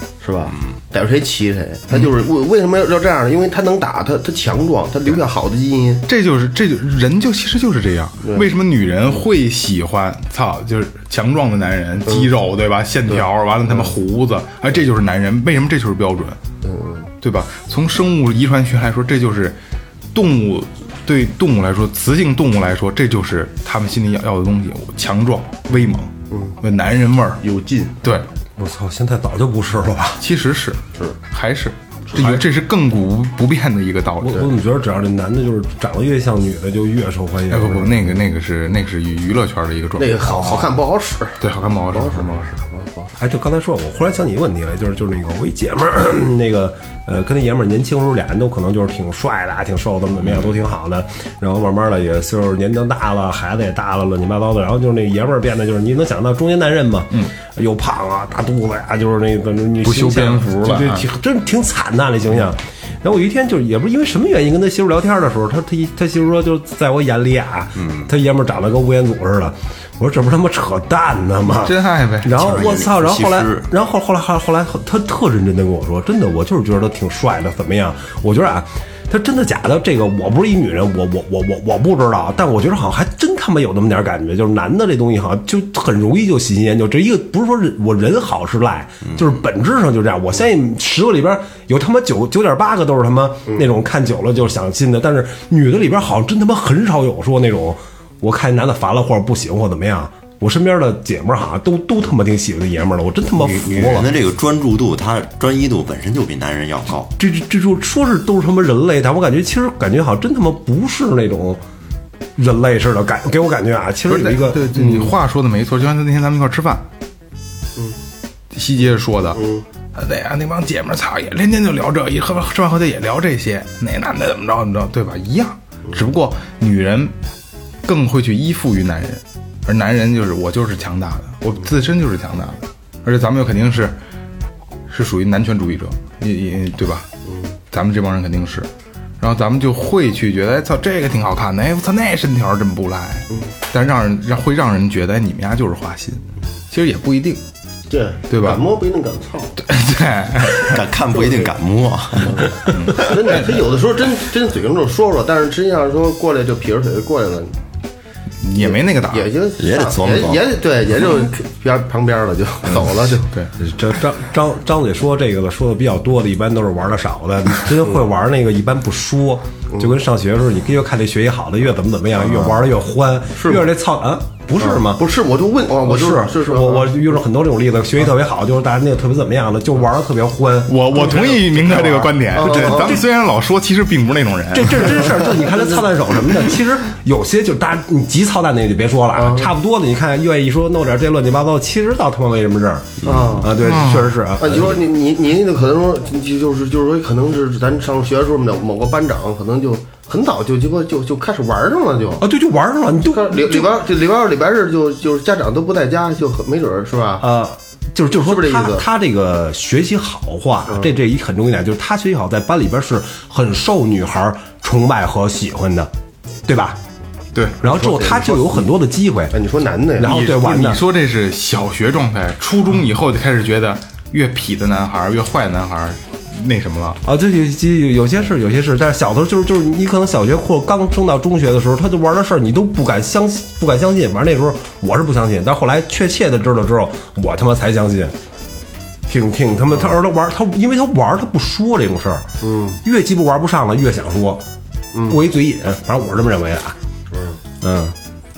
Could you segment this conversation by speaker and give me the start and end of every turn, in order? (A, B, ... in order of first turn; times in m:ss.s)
0:00.2-0:06.0 A
0:06.1-0:16.4 B
0:13.1-0:13.9 A
0:16.6-0:17.1 A
0:17.2-0:19.6 B
0:20.1-0:27.4 B
0:26.3-0:26.6 A
0:27.4-0:28.0 A
0:28.0-0:28.3 B
0:28.6-0:30.2 C
0:30.2-0:34.5 B
0:32.1-0:32.4 A
0:34.2-0:38.1 C
0:37.5-0:40.7 B
0:40.0-0:41.4 A
0:41.4-0:42.5 B
0:41.9-0:43.1 A
0:43.2-1:44.1 C
0:59.8-1:01.0 B
1:11.6-1:12.7 B
1:12.4-1:13.7 D
1:43.4-1:47.1 D
1:47.2-1:51.6 C
1:52.4-1:55.1 C
1:54.1-1:56.8 B
1:58.5-1:59.4 B
1:59.3-1:59.6 A
1:59.9-2:07.1 B
2:07.8-2:14.0 B
2:14.9-2:17.1 B
2:17.7-2:18.7 B
2:19.2-2:27.4 B
2:27.9-2:29.6 A
2:28.3-2:28.6 B
2:29.6-2:30.8 B
2:30.6-2:32.5 D
2:31.1-2:31.5 A
2:32.2-2:37.6 A
2:32.6-2:33.6 B
2:38.4-2:39.3 B
2:38.6-2:43.3 A
2:39.6-2:40.5 D
2:42.7-2:43.5 B
2:43.6-2:55.0 C
2:53.4-2:53.7 A
2:54.6-2:57.0 A
2:55.8-3:03.0 C
3:00.7-3:05.2 B
3:02.3-3:03.0 A
3:04.5-3:14.8 C
3:09.1-3:09.5 A
3:13.0-3:13.4 D
3:13.0-3:13.6 A
3:13.6-3:14.2 B
3:14.4-3:22.2 A
3:22.2-3:23.7 C
3:23.0-3:27.2 A
3:27.2-3:35.9 C
3:28.2-3:28.8 A
3:36.5-3:36.8 C
3:37.3-3:37.6 B
3:37.6-3:39.4 C
3:37.6-3:38.7 A
3:39.3-3:40.2 A
3:40.0-3:40.8 C
3:40.0-3:47.0 B
3:47.0-3:58.1 C
3:59.1-4:02.3 C
4:02.4-4:02.8 A
4:02.8-4:04.4 C
4:05.1-4:06.8 C
4:07.1-4:07.4 A
4:07.6-4:07.9 C